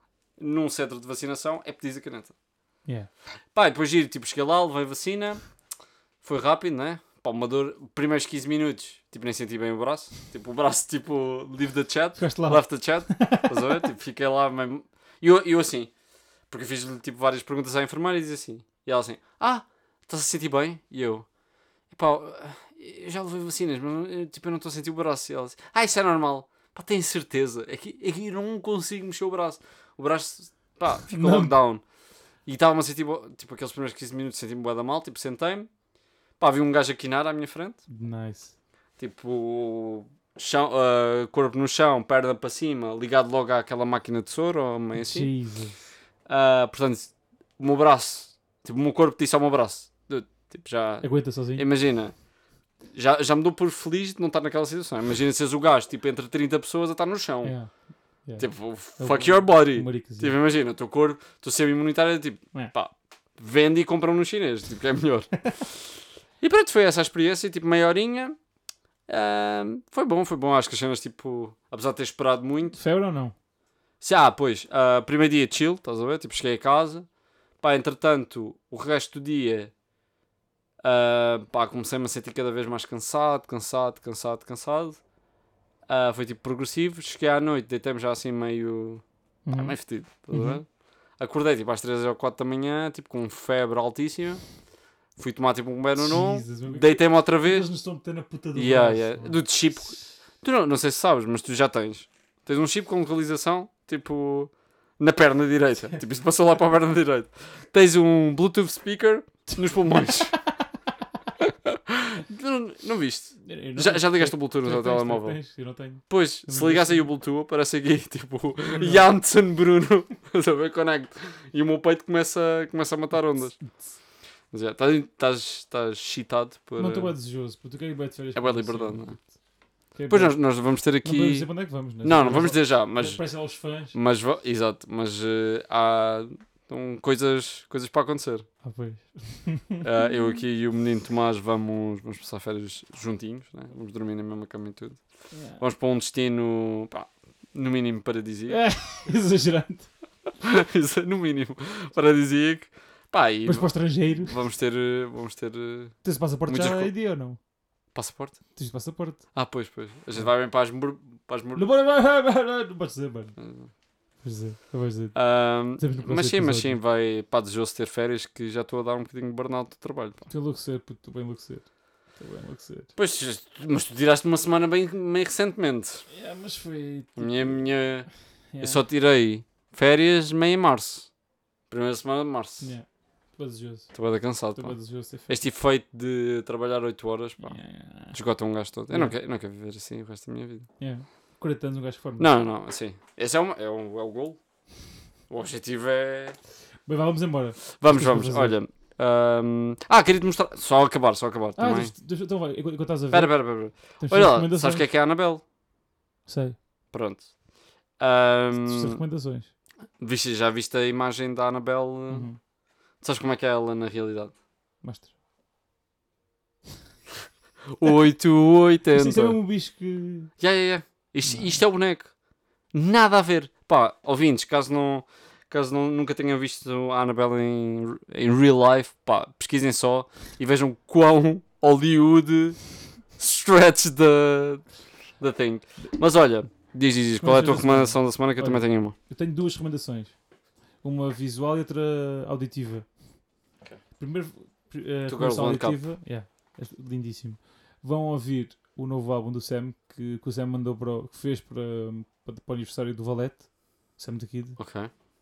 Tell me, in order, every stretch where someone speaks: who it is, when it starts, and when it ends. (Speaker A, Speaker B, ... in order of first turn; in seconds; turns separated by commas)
Speaker A: 0.4-2.4, Speaker A: 3.5-5.5, Speaker A: 6.2-15.9, Speaker B: 12.2-13.5, Speaker A: 16.5-21.3, Speaker A: 21.9-31.9, Speaker B: 31.1-31.5, Speaker A: 32.4-35.7, Speaker A: 36.4-37.8, Speaker B: 37.9-38.5, Speaker A: 39.0-45.4, Speaker B: 44.9-45.8, Speaker A: 46.2-52.2, Speaker B: 51.0-51.6, Speaker A: 52.9-57.8, Speaker B: 57.4-60.3, Speaker A: 58.4-68.4, Speaker A: 69.1-72.8, Speaker B: 72.7-73.3, Speaker A: 74.0-77.1, Speaker A: 77.6-79.7, Speaker A: 80.8-85.0, Speaker A: 85.9-94.5, Speaker B: 89.4-89.8, Speaker B: 90.3-90.6, Speaker A: 95.2-97.7, Speaker B: 96.0-99.4, Speaker A: 98.5-110.5, Speaker A: 111.9-115.4, Speaker B: 113.4-117.1, Speaker A: 116.1-123.7, Speaker B: 118.6-119.1, Speaker A: 124.5-127.1, Speaker B: 126.8-129.3, Speaker A: 128.3-129.3, Speaker B: 129.9-133.9, Speaker A: 130.1-138.5, Speaker B: 138.6-139.8, Speaker A: 139.8-148.7, Speaker B: 145.3-145.6, Speaker B: 148.5-149.9, Speaker A: 150.4-156.9, Speaker B: 153.4-154.4, Speaker B: 156.0-157.4, Speaker A: 157.9-158.5, Speaker B: 158.6-159.5, Speaker A: 159.3-161.6, Speaker B: 161.5-163.4, Speaker A: 163.4-163.7, Speaker B: 164.2-166.8, Speaker A: 165.1-170.3, Speaker B: 170.3-172.9, Speaker A: 172.9-176.1, Speaker B: 176.1-178.8, Speaker A: 177.2-181.1, Speaker A: 181.7-182.7, Speaker B: 182.6-185.4, Speaker A: 183.9-190.7, Speaker B: 187.4-188.2, Speaker B: 188.9-189.2, Speaker B: 190.8-192.3, Speaker A: 192.2-196.4, Speaker B: 196.8-198.6, Speaker A: 197.8-201.9, Speaker B: 201.6-204.9, Speaker A: 203.1-205.4, Speaker B: 206.2-206.6, Speaker A: 206.9-207.3, Speaker A: 208.0-209.0, Speaker B: 208.6-209.5, Speaker A: 210.0-212.3, Speaker B: 212.1-212.4, Speaker A: 213.0-214.4, Speaker B: 214.8-215.1, Speaker A: 217.7-219.4, Speaker B: 218.9-220.3, Speaker A: 220.4-222.2, Speaker B: 221.2-221.6, Speaker A: 222.7-238.9, Speaker B: 237.2-243.1, Speaker B: 243.9-254.6, Speaker A: 245.1-245.8, Speaker A: 254.6-254.9